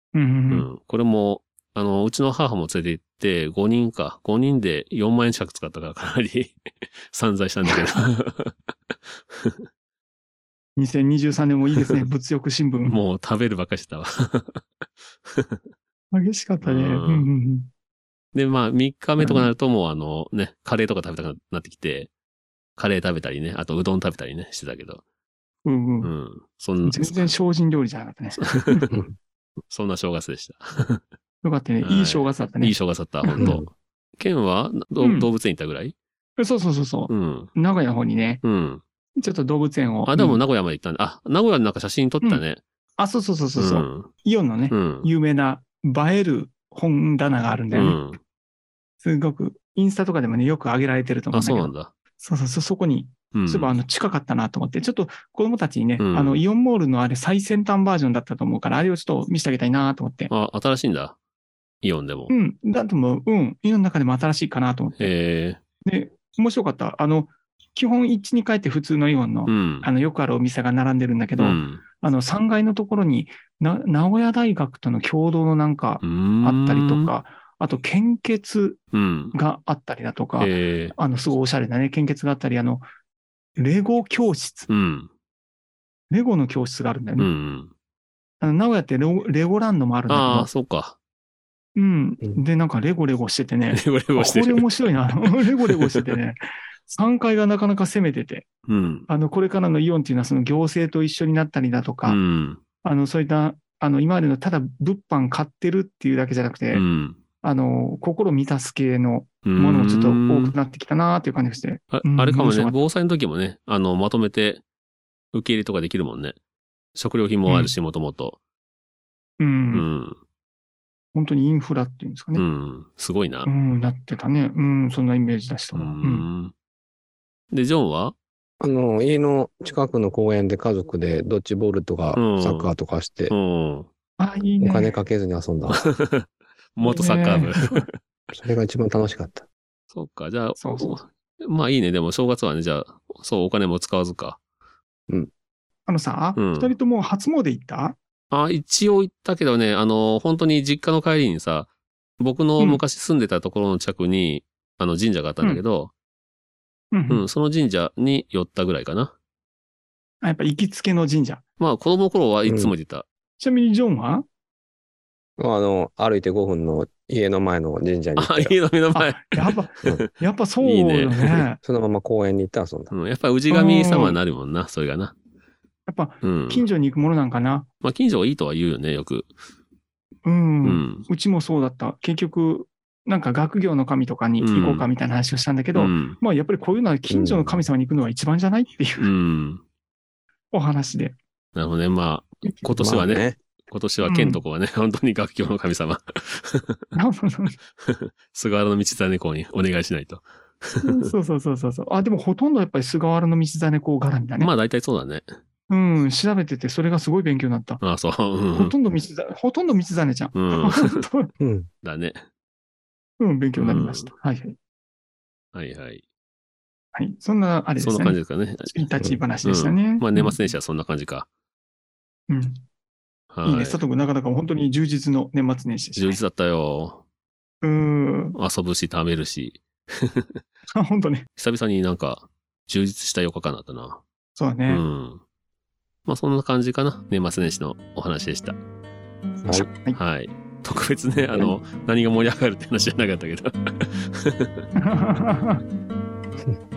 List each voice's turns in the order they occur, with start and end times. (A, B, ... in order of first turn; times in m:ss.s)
0:00.1-0:00.7 A
0:00.5-0:06.6 B
0:07.1-0:08.5 B
0:07.6-0:07.9 A
0:09.3-0:09.7 B
0:10.8-0:13.0 A
0:12.8-0:14.6 B
0:15.3-0:15.6 B
0:16.1-0:17.7 A
0:16.6-0:17.3 B
0:18.3-0:22.1 B
0:19.2-0:19.5 A
0:22.8-0:25.0 B
0:25.6-0:26.1 A
0:26.0-0:27.3 B
0:26.8-0:28.9 A
0:28.4-0:28.8 B
0:29.7-0:31.0 B
0:31.4-0:33.6 A
0:31.8-0:36.0 B
0:33.4-0:33.7 C
0:35.0-0:35.3 A
0:36.4-0:38.4 A
0:37.1-0:37.5 B
0:38.4-0:38.8 B
0:39.2-0:40.4 A
0:40.1-0:42.6 B
0:43.0-0:48.0 A
0:43.6-0:44.1 B
0:44.7-0:45.1 B
0:47.7-0:48.2 B
0:49.0-1:00.3 A
0:51.3-0:51.9 B
0:53.3-0:53.8 B
0:56.0-0:56.4 B
1:00.3-1:01.2 B
1:01.8-1:02.3 B
1:02.3-1:05.2 A
1:05.0-1:05.6 B
1:05.9-1:18.8 A
1:09.5-1:09.9 B
1:11.4-1:11.8 B
1:16.0-1:17.1 B
1:18.9-1:19.4 B
1:19.3-1:22.8 A
1:20.4-1:21.0 B
1:23.6-1:24.7 A
1:24.7-1:25.1 B
1:26.1-1:27.3 A
1:27.2-1:27.7 B
1:28.4-1:30.5 A
1:30.1-1:31.0 B
1:31.8-1:38.5 A
1:33.7-1:36.2 B
1:38.7-1:39.1 B
1:39.1-1:42.2 A
1:42.0-1:42.6 B
1:42.8-1:46.8 A
1:46.7-1:47.2 B
1:47.4-1:52.8 A
1:49.4-1:50.5 B
1:51.9-1:54.6 B
1:55.3-1:56.4 B
1:57.0-1:58.4 B
1:57.5-1:57.7 A
1:59.4-1:59.9 A
1:59.7-2:00.2 B
2:01.1-2:02.5 A
2:02.4-2:03.5 B
2:03.4-2:06.3 A
2:05.7-2:06.5 B
2:07.5-2:08.2 B
2:08.6-2:13.4 C
2:12.1-2:12.7 B
2:13.3-2:13.9 B
2:14.2-2:15.0 A
2:14.6-2:15.9 C
2:15.9-2:18.0 B
2:16.8-2:17.8 A
2:18.3-2:19.4 C
2:19.9-2:24.4 B
2:20.6-2:21.0 A
2:25.9-2:28.0 A
2:26.4-2:26.7 B
2:28.3-2:35.9 B
2:36.9-2:37.2 A
2:37.1-2:39.1 B
2:40.2-2:41.4 A
2:41.6-2:43.0 B
2:42.5-2:42.7 C
2:43.4-2:44.2 A
2:45.4-2:48.6 C
2:48.2-2:50.1 B
2:48.9-2:51.6 A
2:50.6-2:51.5 B
2:51.6-2:52.9 C
2:52.9-2:55.1 B
2:53.5-2:54.2 A
2:55.9-2:57.7 A
2:56.2-2:56.6 B
2:57.8-2:59.3 B
3:00.2-3:09.1 A
3:00.6-3:01.1 B
3:04.4-3:04.9 B
3:05.8-3:06.2 B
3:07.1-3:07.6 C
3:09.0-3:09.6 B
3:10.5-3:11.2 A
3:11.6-3:16.8 B
3:12.8-3:13.4 C
3:14.0-3:14.4 A
3:17.0-3:17.6 A
3:17.8-3:21.1 B
3:20.8-3:24.5 A
3:24.4-3:25.3 B
3:25.7-3:27.8 A
3:27.8-3:28.7 B
3:28.6-3:31.3 A
3:30.3-3:31.0 B
3:31.4-3:31.7 C
3:31.8-3:32.2 B
3:33.2-3:34.6 A
3:33.6-3:34.1 B
3:35.5-3:36.0 B
3:37.0-3:40.5 A
3:37.8-3:41.3 B
3:42.3-3:42.6 A
3:43.3-3:43.8 B
3:43.4-3:46.2 A
3:46.0-3:47.0 B
3:47.6-3:48.4 A
3:48.4-3:50.4 B
3:50.7-3:51.3 A
3:51.4-3:54.0 B
3:54.4-3:54.8 A
3:54.7-3:55.2 B
3:56.1-3:58.6 B
3:59.6-4:00.0 A
3:59.7-4:04.6 B
4:04.8-4:05.6 A